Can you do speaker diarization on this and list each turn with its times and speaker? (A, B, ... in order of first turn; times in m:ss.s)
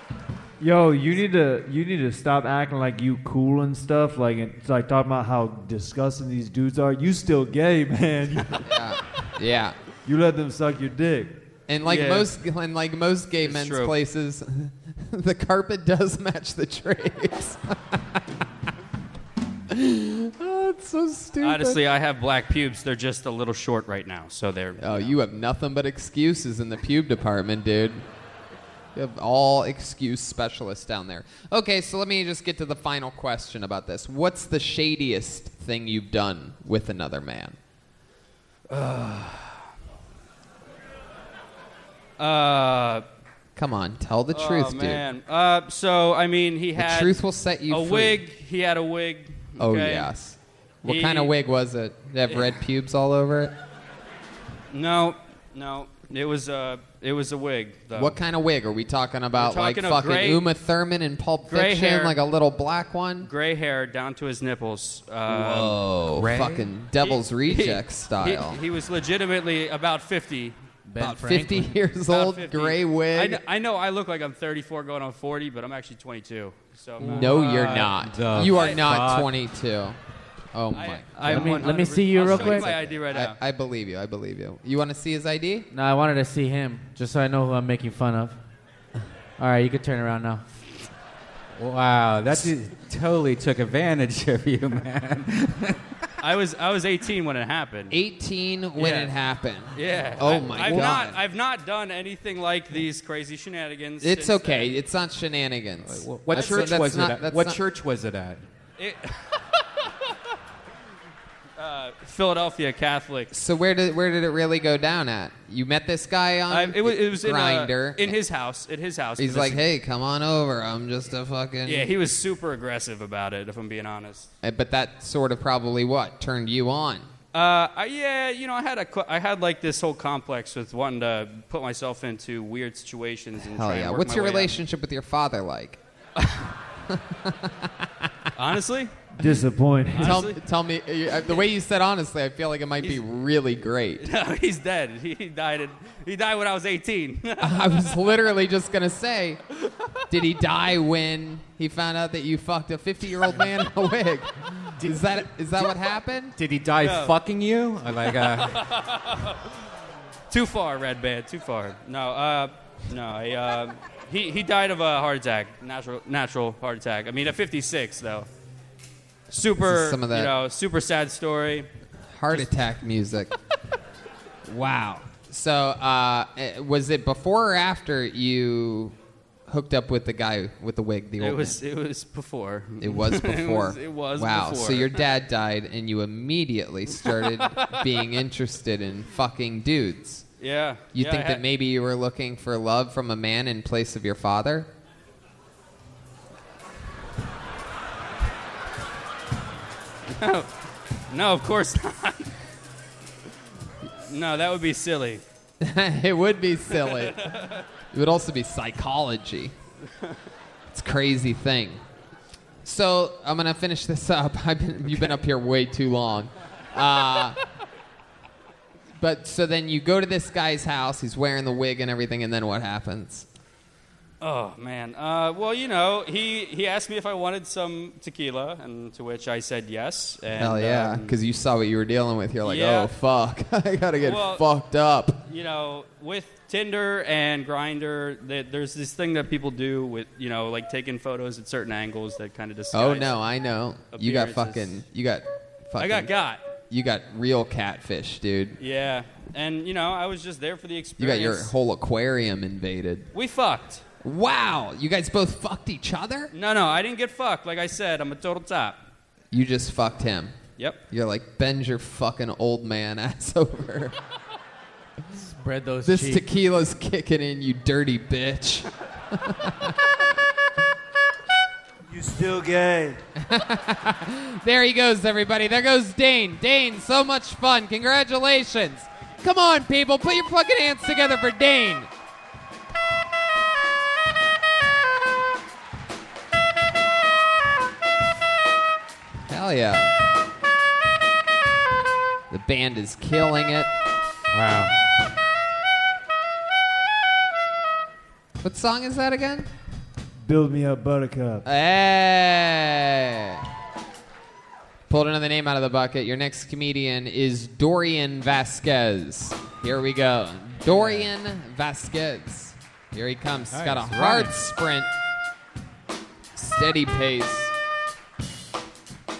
0:00.6-0:08.7 A
0:08.6-0:09.8 B
0:10.0-0:11.4 A
0:11.7-0:18.2 B
0:11.8-0:12.3 C
0:13.4-0:13.9 C
0:19.7-0:21.8 B
0:21.4-0:25.2 C
0:24.8-0:28.0 B
0:28.9-0:37.6 B
0:38.7-0:39.6 C
0:42.2-0:43.0 C
0:43.6-0:45.0 B
0:44.3-0:50.1 C
0:46.8-0:48.2 B
0:49.6-0:53.5 B
0:50.8-0:51.3 C
0:52.3-0:52.6 C
0:54.7-0:58.2 C
0:57.9-1:03.3 B
0:59.3-1:00.5 C
1:01.5-1:02.2 C
1:03.2-1:05.8 C
1:05.3-1:08.6 B
1:06.2-1:06.7 D
1:07.0-1:10.6 C
1:10.8-1:11.8 E
1:11.0-1:13.4 B
1:12.0-1:18.9 C
1:17.0-1:20.0 B
1:18.0-1:19.3 D
1:20.5-1:25.7 B
1:20.7-1:23.4 C
1:21.2-1:22.7 E
1:25.7-1:28.4 E
1:29.4-1:30.4 E
1:31.6-1:35.8 D
1:36.2-1:37.9 C
1:37.9-1:41.2 B
1:38.8-1:39.1 C
1:39.7-1:44.8 C
1:40.4-1:40.7 D
1:44.0-1:47.6 B
1:45.9-1:48.4 D
1:46.3-1:46.8 C
1:48.8-1:49.4 C
1:51.6-1:53.3 C
1:53.3-1:58.2 B
1:56.5-1:59.6 C
1:59.2-2:01.9 B
2:01.6-2:04.3 C
2:04.4-2:07.1 B
2:07.3-2:14.6 C
2:13.4-2:15.8 B
2:16.9-2:17.7 B
2:18.4-2:19.1 C
2:19.2-2:20.2 A
2:19.9-2:20.4 C
2:20.0-2:24.0 B
2:24.0-2:28.0 C
2:27.4-2:29.4 B
2:30.1-2:36.4 B
2:34.8-2:35.1 D
2:36.4-2:38.6 D
2:36.8-2:37.1 C
2:38.0-2:39.5 C
2:40.3-2:48.3 C
2:49.3-2:51.7 C
2:49.6-2:50.3 B
2:52.1-2:53.3 B
2:54.5-2:58.9 B
2:59.5-3:01.6 B
3:01.2-3:05.0 C
3:02.8-3:10.2 B
3:07.0-3:07.9 C
3:10.4-3:11.4 C
3:10.9-3:14.7 B
3:20.1-3:20.5 C
3:21.1-3:22.4 C
3:24.1-3:25.2 C
3:25.6-3:27.3 B
3:26.8-3:27.6 C
3:27.9-3:29.5 B
3:30.7-3:31.8 B
3:32.6-3:37.4 B
3:39.0-3:43.2 B
3:44.2-3:51.2 C
3:50.4-3:55.2 B
3:52.4-3:52.9 C
3:54.0-3:54.4 C
3:55.3-4:03.2 C
4:02.7-4:06.1 B
4:03.9-4:04.8 C
4:05.8-4:06.4 C
4:06.7-4:08.6 B
4:08.6-4:11.5 C
4:11.0-4:13.1 B
4:13.1-4:13.8 C
4:14.0-4:16.3 B
4:16.3-4:18.8 C
4:19.3-4:20.4 B
4:20.9-4:23.9 B
4:25.2-4:26.3 E
4:25.8-4:29.8 B
4:31.9-4:33.0 A
4:33.2-4:41.9 B
4:49.3-4:49.9 B
4:52.3-4:53.7 B
4:54.3-4:54.7 D
4:58.4-4:59.5 B
5:00.2-5:01.4 A
5:01.4-5:03.4 B
5:04.9-5:14.9 B
5:10.7-5:11.1 D
5:13.5-5:14.3 D
5:16.3-5:17.5 B